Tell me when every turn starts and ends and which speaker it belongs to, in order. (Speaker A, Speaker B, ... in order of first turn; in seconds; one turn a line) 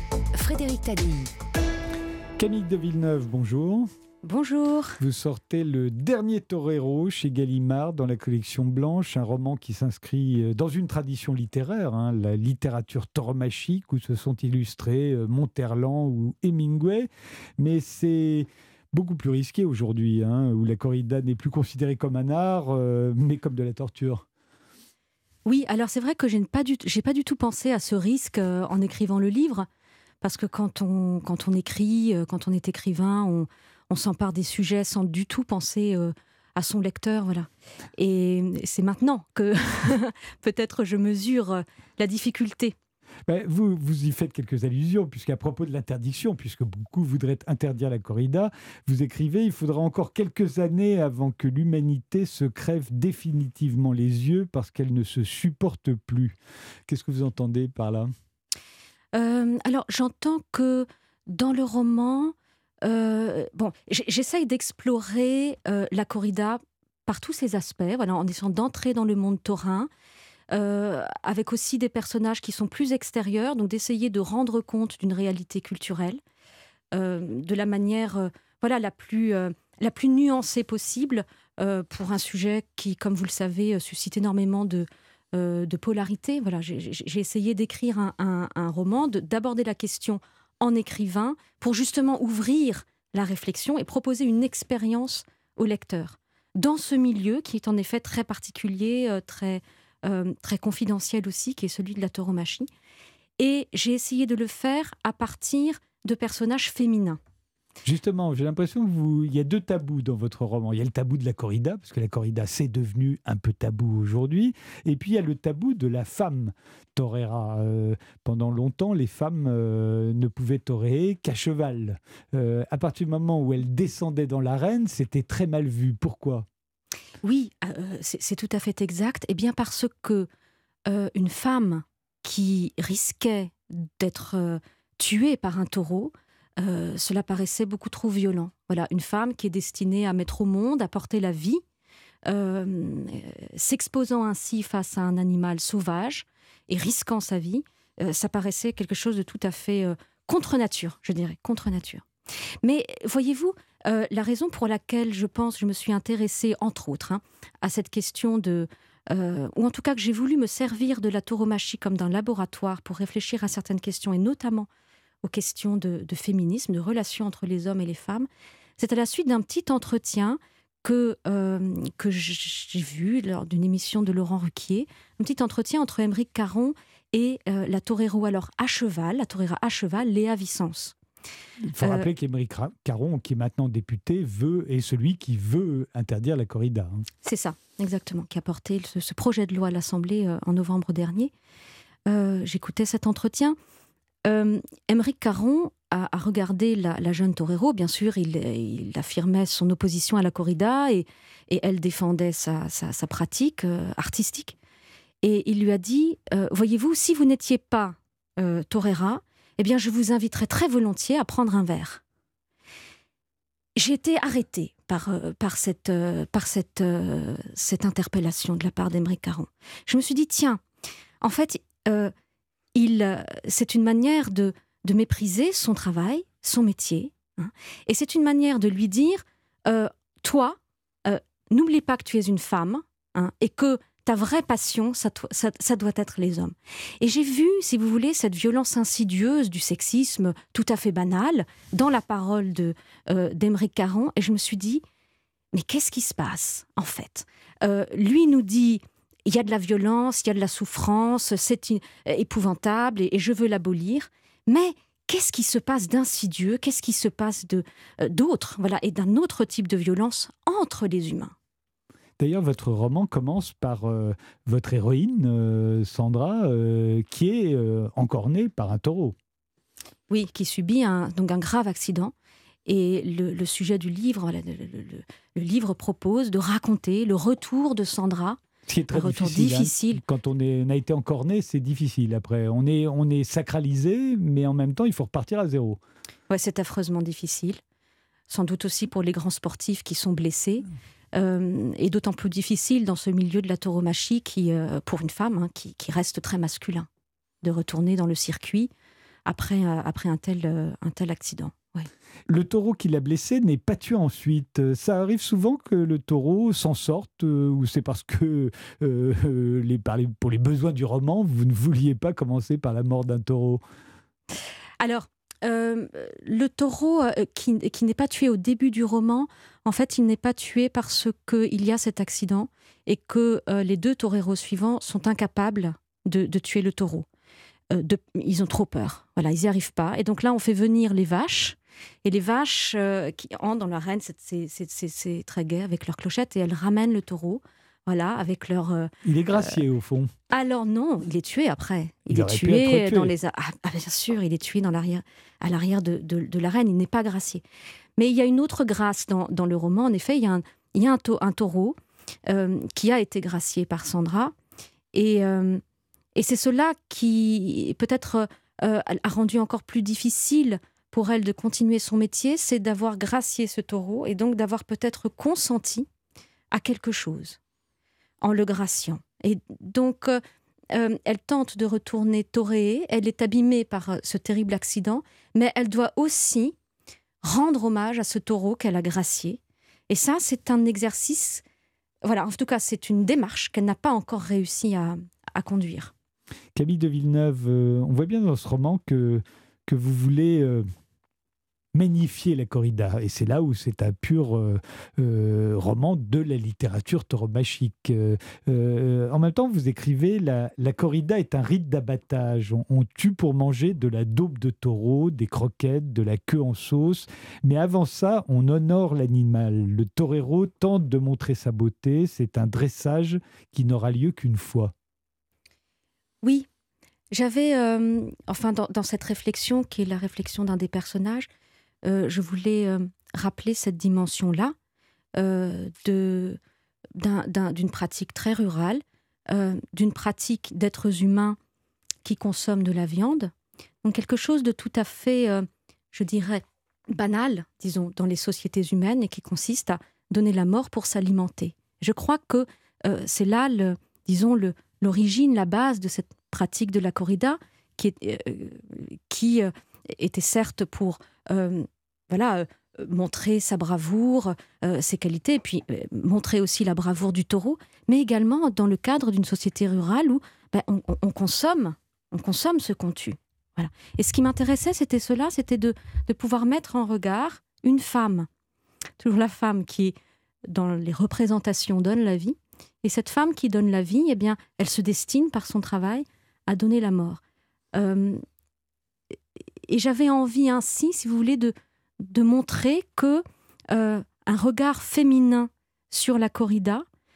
Speaker A: 0.3-1.3
Speaker B: 2.4-3.9
Speaker A: 4.2-5.0
Speaker B: 5.0-24.2
Speaker A: 25.4-29.6
Speaker A: 30.2-42.7
Speaker B: 43.3-56.4
Speaker B: 56.9-58.1
Speaker A: 59.1-69.9
Speaker A: 70.5-76.2
Speaker A: 76.9-102.7
Speaker A: 103.4-107.2
Speaker B: 107.8-126.5
Speaker A: 127.2-130.3
Speaker A: 130.9-141.6
Speaker A: 142.2-152.0
Speaker A: 152.6-164.7
Speaker A: 165.2-168.3
Speaker A: 168.8-180.9
Speaker B: 181.7-187.1
Speaker A: 181.8-182.1
Speaker A: 187.2-191.3
Speaker A: 192.1-193.5
Speaker A: 194.2-204.6
Speaker A: 205.2-212.0
Speaker A: 213.8-220.6
Speaker A: 221.2-222.1
Speaker A: 222.7-244.8
Speaker A: 245.5-261.3
Speaker B: 262.2-269.1
Speaker A: 270.1-272.1
Speaker A: 272.6-278.4
Speaker B: 278.7-285.8
Speaker A: 278.9-280.0
Speaker A: 286.3-287.6
Speaker A: 288.3-296.9
Speaker A: 297.4-298.7
Speaker A: 299.2-301.9
Speaker B: 302.3-313.6
Speaker A: 314.8-327.1
Speaker A: 327.7-339.6
Speaker B: 339.0-340.1
Speaker A: 340.3-347.4
Speaker B: 342.1-343.1
Speaker A: 348.0-351.7
Speaker A: 352.2-354.3
Speaker A: 354.9-355.6
Speaker A: 356.1-365.9
Speaker A: 366.5-367.4
Speaker A: 368.2-370.2
Speaker A: 370.7-376.5
Speaker A: 377.2-381.4
Speaker A: 382.0-385.9
Speaker B: 386.5-390.6
Speaker B: 391.7-414.7
Speaker A: 416.2-416.5
Speaker A: 417.1-421.3
Speaker A: 421.8-424.5
Speaker A: 425.2-426.4
Speaker A: 427.0-431.4
Speaker A: 432.0-433.3
Speaker A: 433.8-468.3
Speaker A: 469.0-469.9
Speaker A: 470.5-477.2
Speaker A: 477.7-478.2
Speaker A: 479.6-486.8